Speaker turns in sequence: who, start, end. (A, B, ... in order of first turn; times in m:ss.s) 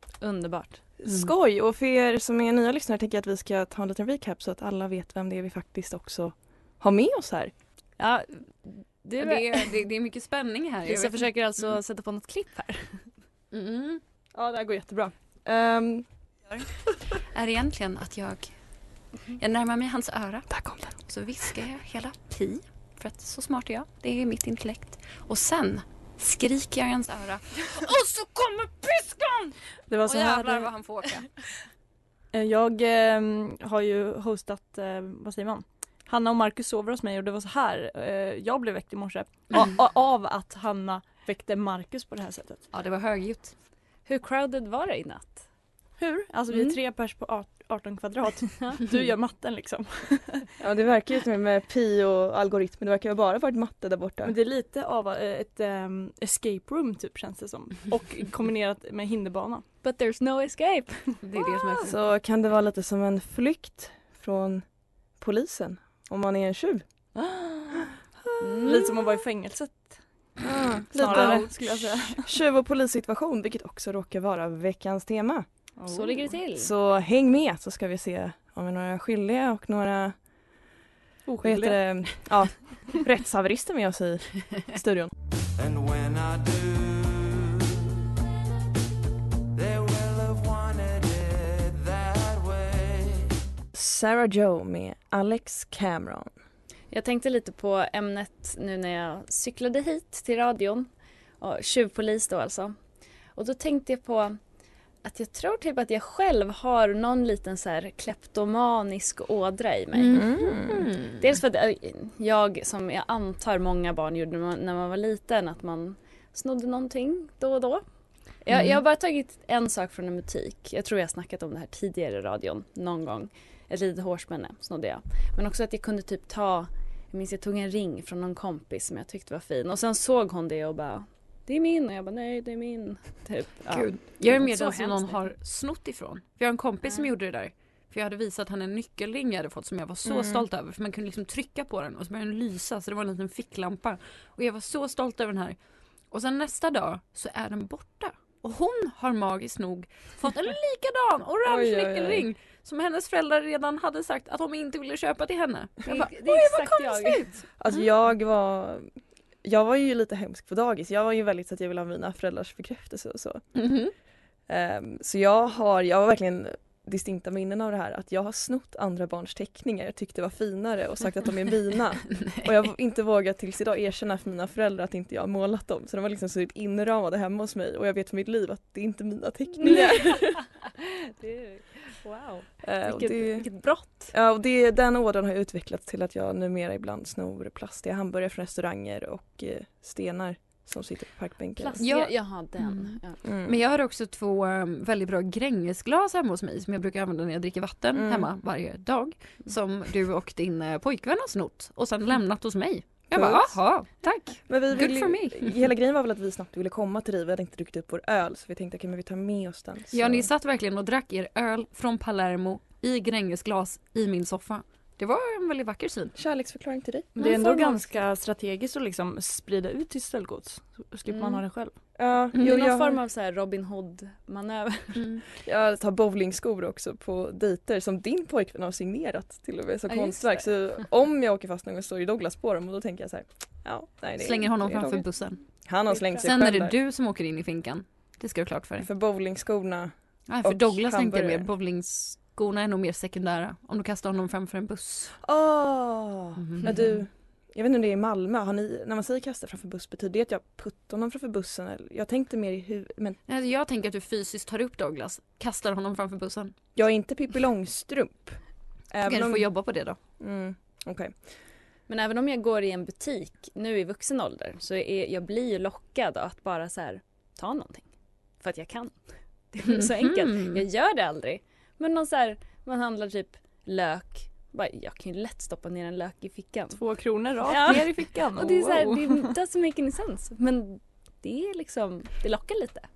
0:00.2-0:00.8 A
0:01.0-0:07.5 B
0:01.0-0:01.3 C
0:08.0-0:09.7 A
0:09.2-0:11.3 C
0:10.8-0:13.1 A
0:13.5-0:14.0 C
0:14.3-0:16.0 B
0:17.2-0:18.5 C
0:19.4-0:31.3 C
0:20.5-0:21.0 B
0:29.9-0:30.7 D
0:32.3-0:42.6 D
0:42.7-0:43.5 C
0:44.0-0:45.4 A
0:46.0-0:50.4 D
0:50.6-0:54.3 B
0:54.2-0:59.6 D
0:59.8-1:01.2 A
1:01.2-1:01.9 C
1:01.8-1:04.6 B
1:05.2-1:06.8 B
1:07.1-1:07.9 D
1:08.4-1:08.9 A
1:08.6-1:08.9 B
1:08.6-1:10.0 D
1:10.4-1:15.4 B
1:10.9-1:12.3 D
1:15.8-1:16.3 D
1:15.9-1:16.7 A
1:16.6-1:20.2 B
1:21.3-1:21.8 D
1:21.4-1:25.1 B
1:25.6-1:28.0 E
1:29.5-1:33.3 E
1:33.7-1:36.3 B
1:36.9-1:40.9 A
1:41.4-1:42.8 A
1:43.3-1:44.4 A
1:45.0-1:50.3 A
1:49.9-1:51.2 C
1:50.1-1:50.9 B
1:51.2-1:57.8 A
1:58.4-2:15.2 A
1:58.5-1:58.8 C
2:13.7-2:25.6 C
2:20.0-2:20.4 B
2:26.1-2:37.8 C
2:31.4-2:32.3 B
2:35.9-2:37.3 A
2:37.6-2:38.9 B
2:39.4-2:43.4 B
2:43.6-2:43.9 C
2:44.5-3:00.4 B
2:59.6-3:04.1 A
3:02.6-3:03.5 B
3:04.1-3:11.8 B
3:11.6-3:13.2 A
3:11.8-3:25.5 C
3:13.2-3:13.6 B
3:17.9-3:18.3 B
3:23.1-3:23.6 B
3:24.5-3:30.3 B
3:29.9-3:36.1 C
3:36.2-3:37.1 B
3:37.2-3:41.8 D
3:37.2-3:37.7 C
3:42.0-3:43.0 B
3:42.3-3:45.0 A
3:45.0-3:45.2 C
3:45.4-3:55.0 B
3:49.9-3:50.5 A
3:54.2-3:55.4 C
3:55.6-3:56.8 B
3:55.9-3:56.2 A
3:56.2-3:58.9 C
3:58.8-4:01.5 B
4:00.3-4:05.2 C
4:05.2-4:13.2 B
4:06.4-4:06.8 C
4:13.3-4:16.5 C
4:16.7-4:18.4 B
4:18.9-4:19.5 B
4:19.0-4:20.0 C
4:20.2-4:21.2 B
4:21.9-4:27.9 A
4:28.4-4:29.0 A
4:29.5-4:36.8 A
4:29.6-4:30.6 C
4:36.8-4:39.3 D
4:37.4-4:42.9 A